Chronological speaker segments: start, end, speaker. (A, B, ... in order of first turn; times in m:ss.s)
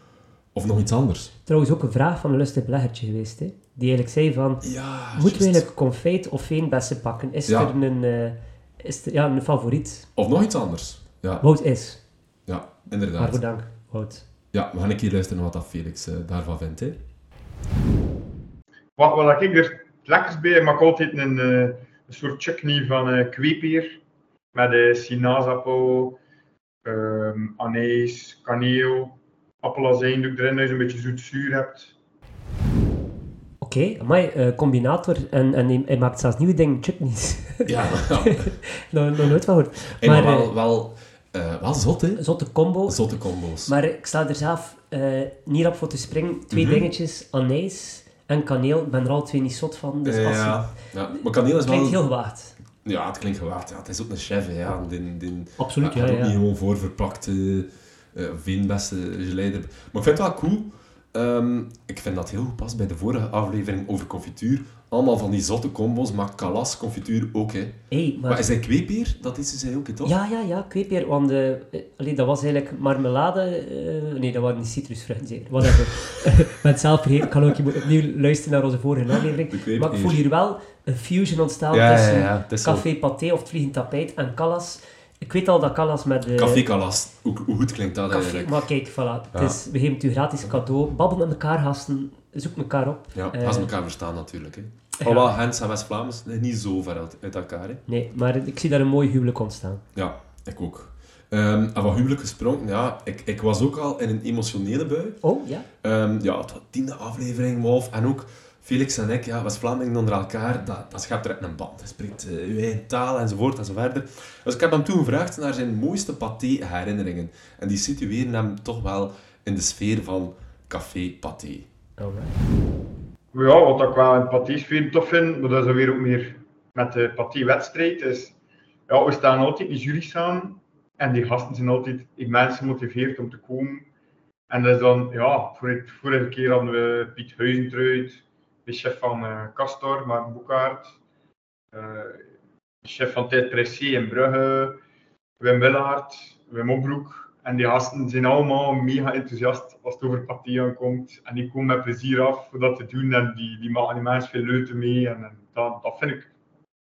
0:00.5-0:01.3 A
0:01.5-0:10.1 B
0:04.6-0:05.6 A
0:10.2-0:11.4 A
0:11.4-0:12.0 B
0:12.5-0:13.4 A
0:13.2-0:14.2 B
0:14.5-0:17.0 A
0:19.0-0:24.0 C
0:24.5-0:26.2 C
0:26.8-0:31.9 C
0:33.6-0:40.5 B
0:37.6-0:38.5 A
0:40.0-0:42.2 A
0:42.2-0:43.0 B
0:42.9-0:43.7 A
0:43.6-0:50.6 B
0:46.5-0:46.9 A
0:50.0-0:52.0 A
0:51.6-0:52.5 B
0:52.8-1:07.8 A
0:55.6-0:56.4 B
1:07.9-1:08.5 B
1:08.3-1:10.2 A
1:10.0-1:26.6 B
1:19.5-1:20.2 A
1:21.7-1:22.8 A
1:26.3-1:28.5 A
1:28.1-1:33.7 B
1:33.1-1:37.8 A
1:35.0-1:35.3 B
1:37.9-1:39.8 B
1:39.9-1:45.2 A
1:45.2-1:45.6 B
1:45.8-2:01.7 A
2:02.0-2:02.4 B
2:03.3-2:08.3 C
2:08.9-2:13.8 C
2:14.5-2:20.9 C
2:21.7-2:22.2 C
2:22.8-2:24.8 C
2:25.4-2:36.3 C